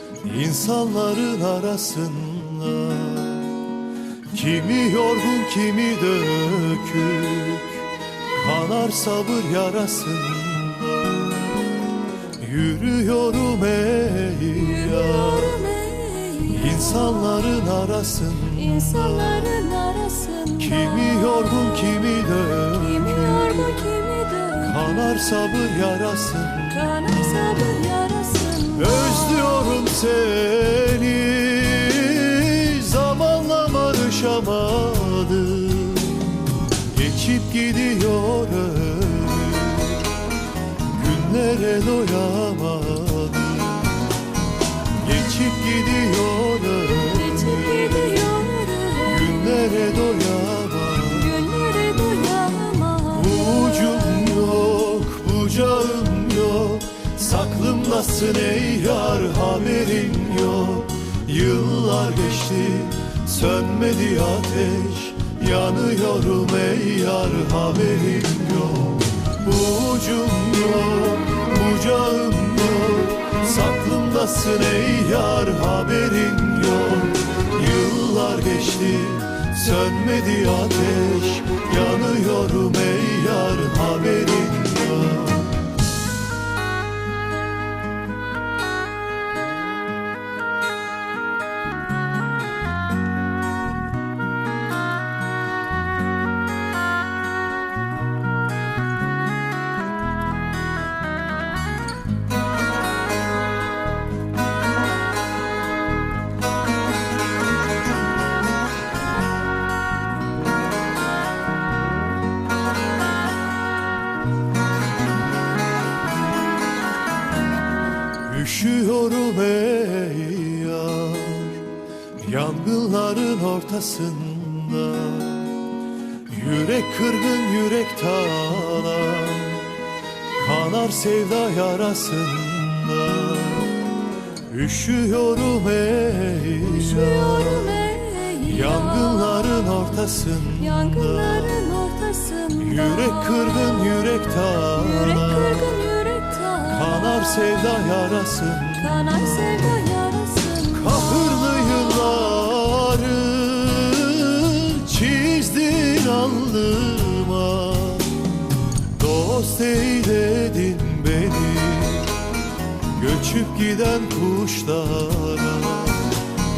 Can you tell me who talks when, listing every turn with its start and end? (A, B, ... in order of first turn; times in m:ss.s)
0:00.2-0:03.6 A
0:04.3-0:11.5 A
0:12.4-0:15.6 A
0:14.9-0:17.0 B
0:16.4-0:19.4 A
0:18.8-0:20.7 B
0:20.5-0:23.7 A
0:23.1-0:24.6 B
0:24.6-0:27.2 A
0:26.9-0:29.0 B
0:28.7-0:40.1 A
0:40.8-0:43.9 A
0:45.0-0:48.0 A
0:47.3-0:49.0 B
0:49.0-0:51.5 A
0:51.3-0:53.2 B
0:53.1-1:25.6 A
1:58.2-2:01.6 A
2:02.2-2:05.6 A
2:06.3-2:09.8 A
2:10.3-2:13.8 A
2:14.5-2:21.5 A
2:17.0-2:18.7 B
2:20.8-2:22.7 B
2:22.5-2:25.8 A
2:25.2-2:26.7 B
2:26.6-2:29.1 A
2:28.9-2:30.9 B
2:30.7-2:38.2 A
2:38.9-2:42.2 A
2:42.9-2:46.2 A